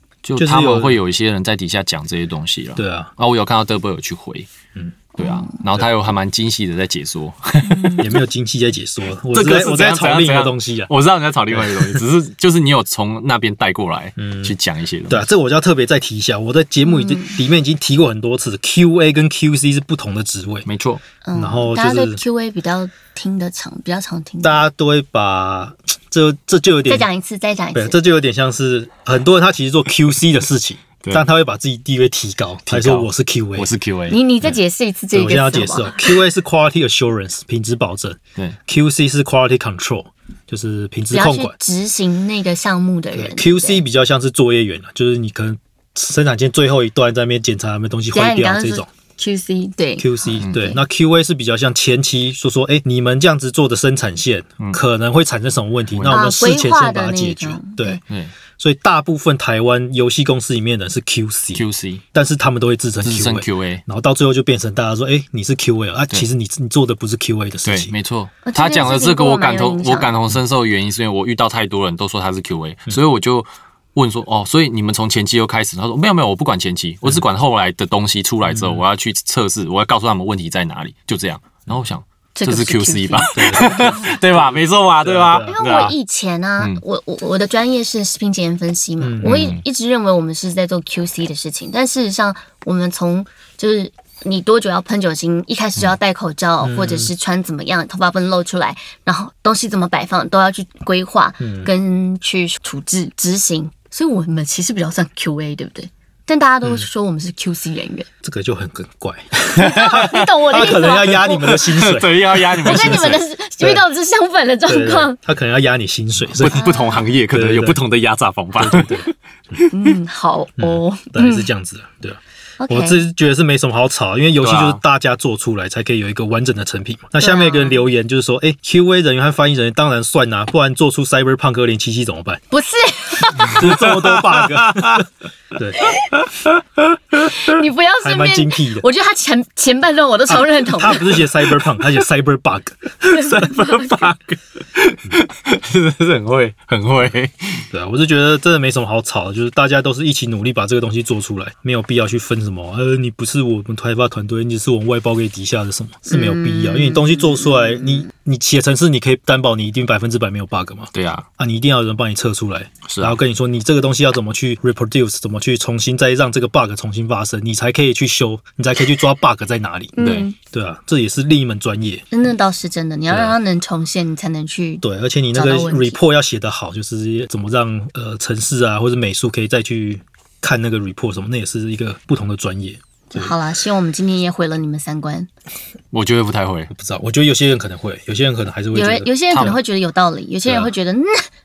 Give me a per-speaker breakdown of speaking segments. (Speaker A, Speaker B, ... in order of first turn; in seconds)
Speaker A: 0.2-4.5, 5.2-8.2, 9.3-15.2, 20.7-21.0, 32.7-34.2, 50.4-50.7, 55.9-56.4, 58.1-58.3, 61.5-62.0, 63.0-63.8, 67.7-86.0, 89.2-89.6, 109.6-113.2, 116.3-120.0, 124.4-124.8, 133.5-135.0, 136.1-137.5, 143.1-147.7, 160.9-161.3, 162.8-163.2, 170.0-170.3, 185.9-186.7, 189.3-189.6
Speaker B: 0.4-1.0, 2.8-3.1, 8.0-10.9, 11.5-12.0, 14.2-14.6, 15.1-20.7, 21.3-22.2, 24.4-27.1, 27.7-33.7, 35.1-41.5, 43.1-48.9, 50.0-58.0, 58.6-67.9, 78.5-78.8, 83.3-85.6, 89.0-89.4, 96.6-97.1, 101.4-101.7, 108.2-113.8, 114.7-116.7, 117.3-117.8, 118.6-119.1, 120.6-132.4, 133.4-135.9, 138.0-138.9, 140.3-143.0, 147.7-172.1, 174.8-183.3, 186.7-189.5
Speaker C: 5.2-5.6, 7.6-8.1, 16.9-17.4, 21.2-24.7, 26.9-28.0, 34.1-36.2, 41.1-43.8, 48.1-50.8, 56.1-58.0, 68.4-70.1, 82.4-84.2, 85.3-108.1, 109.6-111.5, 112.6-115.2, 116.5-117.1, 119.7-121.5, 122.6-123.0, 127.2-127.8, 132.5-133.6, 137.3-141.3, 143.1-144.1, 156.1-158.1, 170.0-170.3, 172.1-174.8, 175.3-176.0, 183.1-185.3, 188.7-191.3